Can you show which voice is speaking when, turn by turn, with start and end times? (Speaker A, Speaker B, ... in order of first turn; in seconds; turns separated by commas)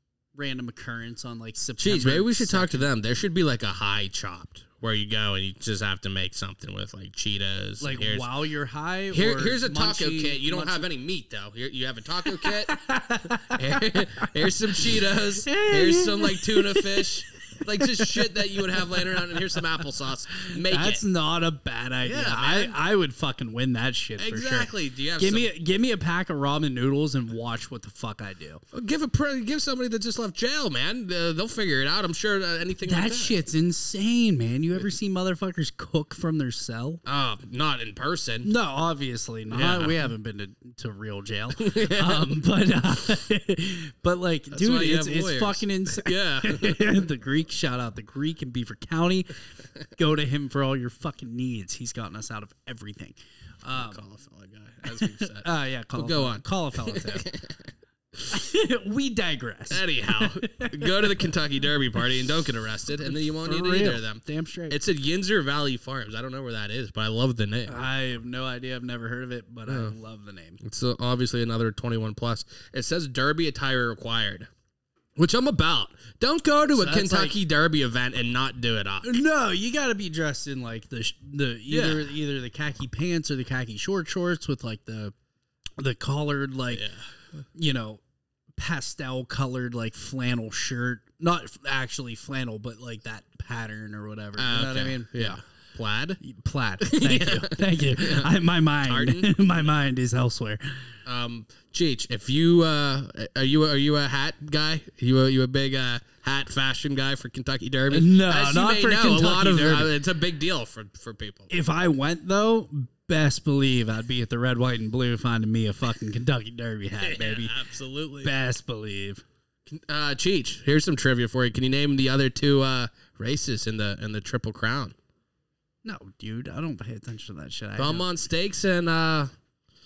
Speaker A: 0.3-2.9, Speaker B: 1.8-8.3, Speaker A: 7.8-10.9, Speaker B: 9.1-21.0, Speaker A: 12.3-17.1, Speaker A: 17.8-19.4, Speaker A: 20.4-28.6, Speaker B: 22.0-22.8, Speaker B: 24.2-25.5, Speaker B: 28.7-33.4, Speaker A: 32.8-37.0, Speaker B: 37.0-38.5, Speaker A: 38.4-49.4, Speaker B: 39.5-40.0, Speaker B: 41.6-42.4, Speaker B: 44.5-47.0, Speaker A: 49.9-54.0, Speaker B: 53.7-58.3, Speaker A: 54.9-57.3, Speaker A: 58.3-61.3, Speaker B: 59.7-67.8, Speaker A: 63.0-64.8, Speaker A: 67.7-70.6, Speaker B: 69.7-69.9, Speaker B: 70.6-74.5, Speaker B: 75.2-79.2, Speaker A: 76.7-77.3, Speaker A: 79.0-85.1, Speaker B: 81.7-82.1, Speaker A: 85.8-86.9, Speaker B: 86.7-87.0, Speaker A: 87.5-88.0, Speaker A: 88.6-95.4, Speaker B: 94.3-96.2, Speaker A: 96.2-100.6, Speaker B: 96.8-99.7, Speaker B: 101.0-111.5, Speaker A: 107.9-109.9, Speaker A: 111.5-117.6, Speaker B: 117.0-118.3, Speaker A: 118.2-119.2, Speaker B: 119.7-125.0, Speaker A: 125.8-128.1, Speaker B: 127.8-129.3